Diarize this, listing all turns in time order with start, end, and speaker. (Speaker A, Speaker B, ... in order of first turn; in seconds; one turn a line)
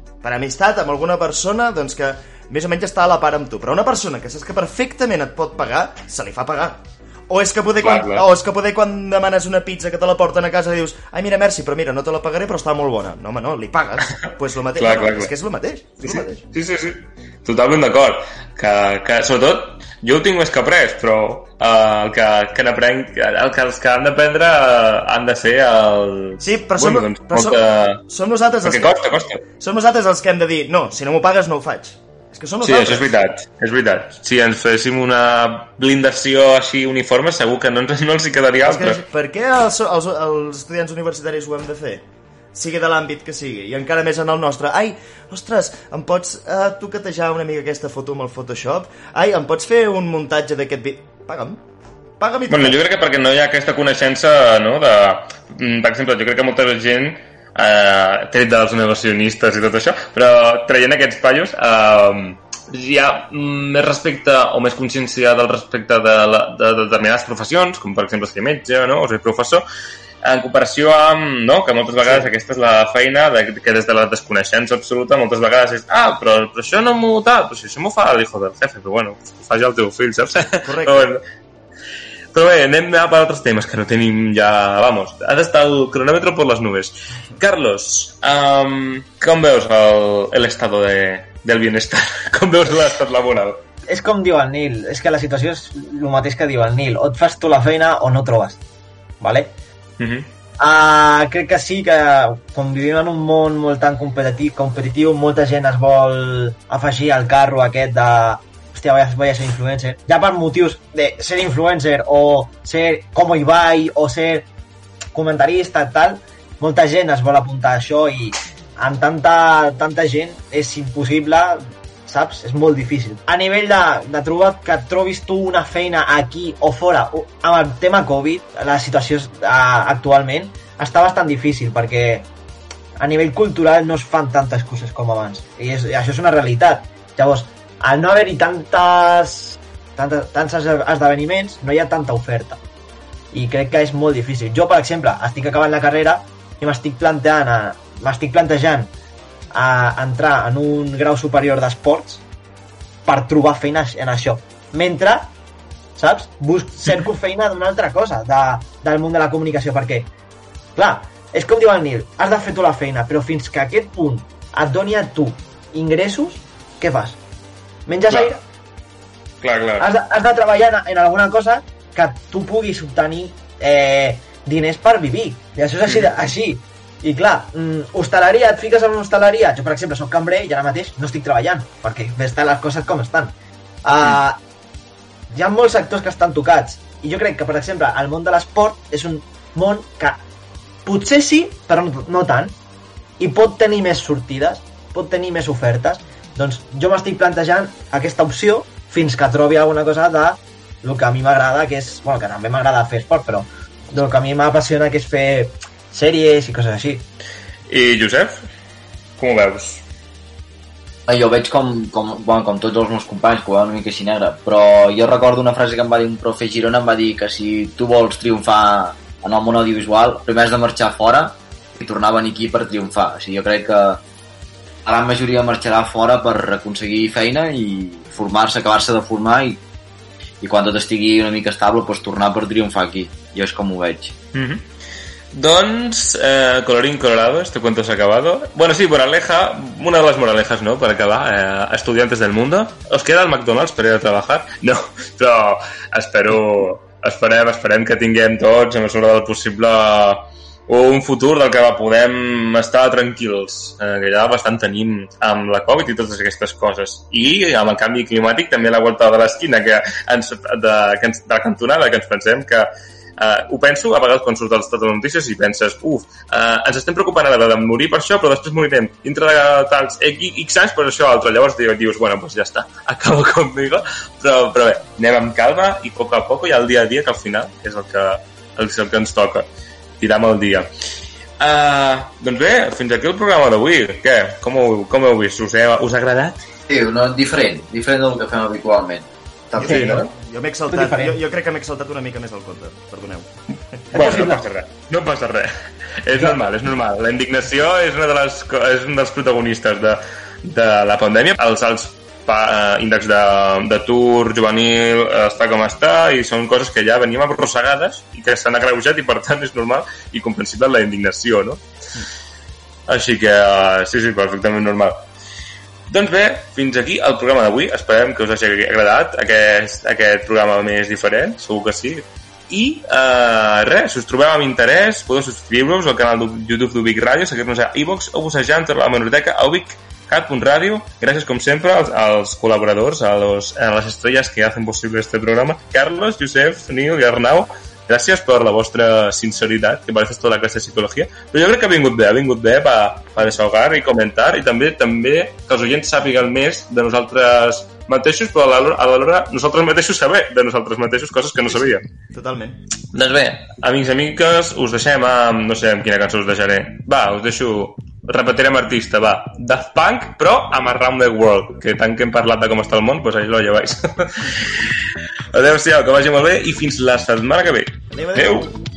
Speaker A: 0.2-16.4
Speaker B: 7.8-8.2
Speaker B: 14.8-15.3
Speaker B: 16.0-28.0
Speaker A: 26.4-28.9
Speaker B: 28.6-29.4
Speaker A: 29.5-33.1
Speaker B: 32.6-39.0
Speaker A: 38.6-51.6
Speaker A: 52.2-52.8
Speaker B: 52.5-69.6
Speaker B: 70.2-81.2
Speaker A: 80.6-81.1
Speaker B: 82.3-93.6
Speaker C: 93.9-98.6
Speaker C: 99.2-99.5
Speaker B: 100.0-100.3
Speaker C: 100.6-114.5
Speaker C: 115.1-132.3
Speaker C: 133.0-142.6
Speaker C: 143.3-148.9
Speaker C: 149.5-152.2
Speaker C: 153.1-155.3
Speaker C: 155.9-160.1
Speaker C: 160.8-167.2
Speaker C: 167.9-168.4
Speaker B: 169.4-169.8
Speaker C: 169.8-184.4
Speaker C: 185.3-190.2
Speaker C: 190.8-192.6
Speaker C: 193.2-207.1
Speaker B: 207.7-208.4
Speaker B: 209.2-209.8
Speaker D: 211.1-224.0
Speaker D: 224.8-229.6
Speaker D: 230.4-234.1
Speaker B: 234.3-234.6
Speaker B: 235.3-279.4
Speaker B: 280.0-280.7
Speaker B: 281.4-286.4
Speaker D: 286.7-290.0
Speaker A: 289.5-294.3
Speaker C: 289.6-290.0
Speaker C: 290.7-291.2
Speaker C: 293.9-294.4
Speaker B: 293.9-295.5
Speaker B: 296.0-311.6
Speaker B: 312.9-315.0
Speaker B: 315.9-351.8
Speaker A: 351.5-352.6
Speaker B: 352.9-364.6
Speaker B: 365.3-368.5
Speaker A: 367.9-368.5